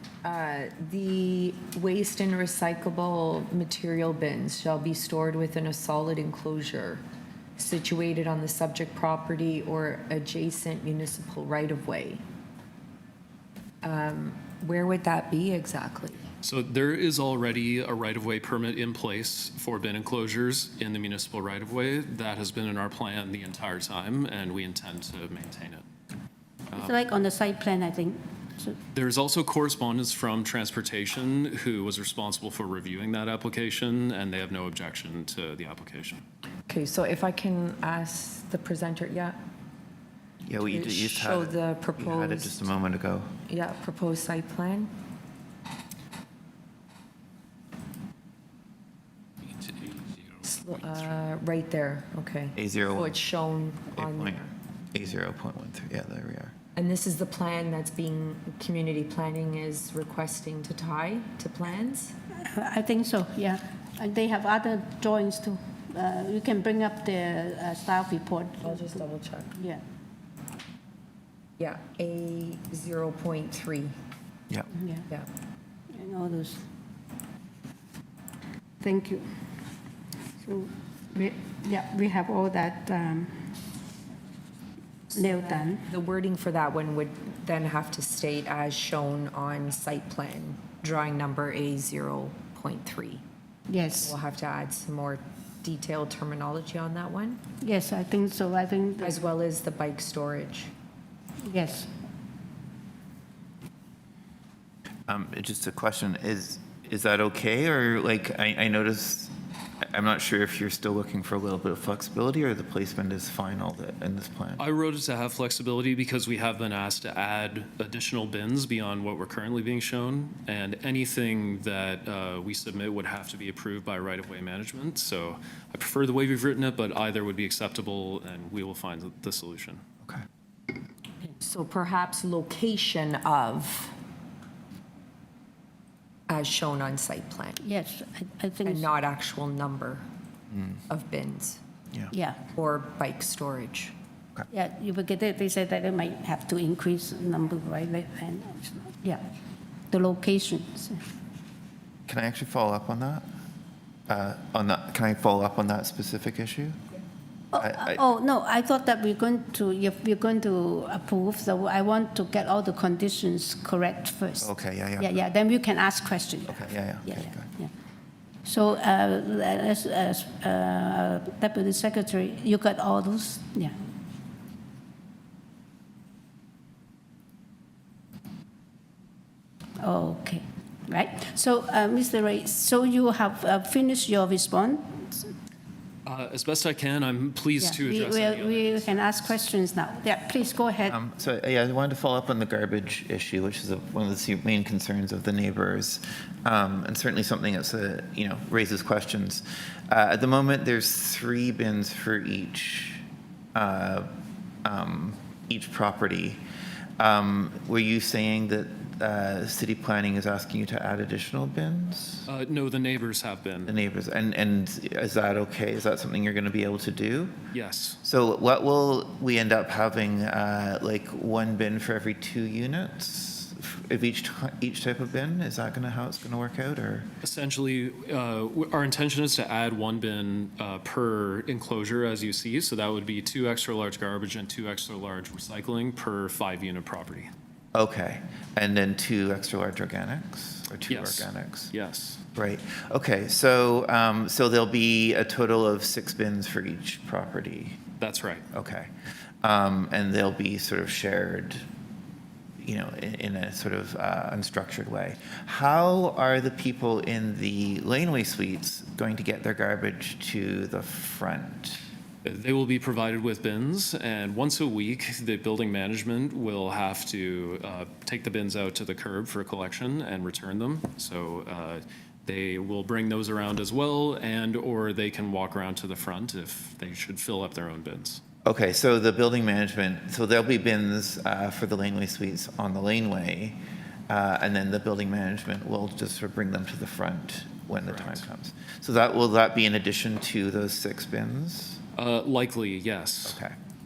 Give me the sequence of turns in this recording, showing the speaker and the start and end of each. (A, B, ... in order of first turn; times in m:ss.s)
0:00.2-0:07.0 A
0:07.6-0:12.2 A
0:13.8-0:16.2 A
0:16.4-0:25.8 B
0:26.8-0:28.8 C
0:28.9-0:36.2 B
0:36.7-0:39.4 A
0:40.4-0:43.3 D
0:40.6-0:42.7 A
0:43.5-0:44.9 A
0:50.4-0:54.5 A
0:52.6-0:53.2 D
0:53.9-0:54.4 D
0:54.9-0:56.5 D
0:56.7-1:02.1 A
1:02.4-1:09.8 C
1:08.6-1:09.5 A
1:11.6-1:13.9 A
1:14.7-1:15.1 C
1:15.9-1:16.6 C
1:18.8-1:19.3 C
1:20.4-1:23.4 C
1:25.1-1:25.9 C
1:25.2-1:33.2 A
1:33.7-1:34.1 C
1:34.0-1:37.4 A
1:37.6-1:39.3 C
1:39.0-1:40.7 A
1:41.4-1:41.9 C
1:45.1-1:49.3 D
1:49.9-1:54.6 D
1:54.6-2:09.8 B
2:11.4-2:13.9 A
2:16.3-2:17.6 A
2:17.6-2:18.9 C
2:18.6-2:20.0 A
2:20.5-2:20.8 D
2:20.9-2:21.6 A
2:22.1-2:22.4 C
2:22.5-2:23.9 A
2:24.5-2:29.2 C
2:29.9-2:31.0 C
2:32.1-2:33.2 D
2:34.1-2:36.8 D
2:37.5-2:47.7 C
2:37.6-2:38.0 D
2:44.4-2:45.3 D
2:46.5-2:47.5 D
2:48.4-2:53.7 C
2:59.8-3:05.3 C
3:06.0-3:09.3 B
3:07.6-3:11.0 C
3:10.9-3:23.0 D
3:23.5-3:24.1 D
3:24.6-3:26.4 D
3:27.0-3:32.3 D
3:32.3-3:33.8 B
3:33.7-3:37.4 D
3:37.5-3:38.0 B
3:38.0-3:47.1 D
3:47.2-3:57.3 B
3:57.7-4:01.7 D
4:00.9-4:02.2 B
4:02.3-4:07.8 D
4:08.0-4:08.4 B
4:08.5-4:08.9 D
4:09.4-4:11.6 D
4:12.6-4:21.8 D
4:22.2-4:38.2 B
4:38.4-4:51.8 D
4:47.8-4:48.2 B
4:51.9-4:53.4 B
4:53.2-4:53.6 D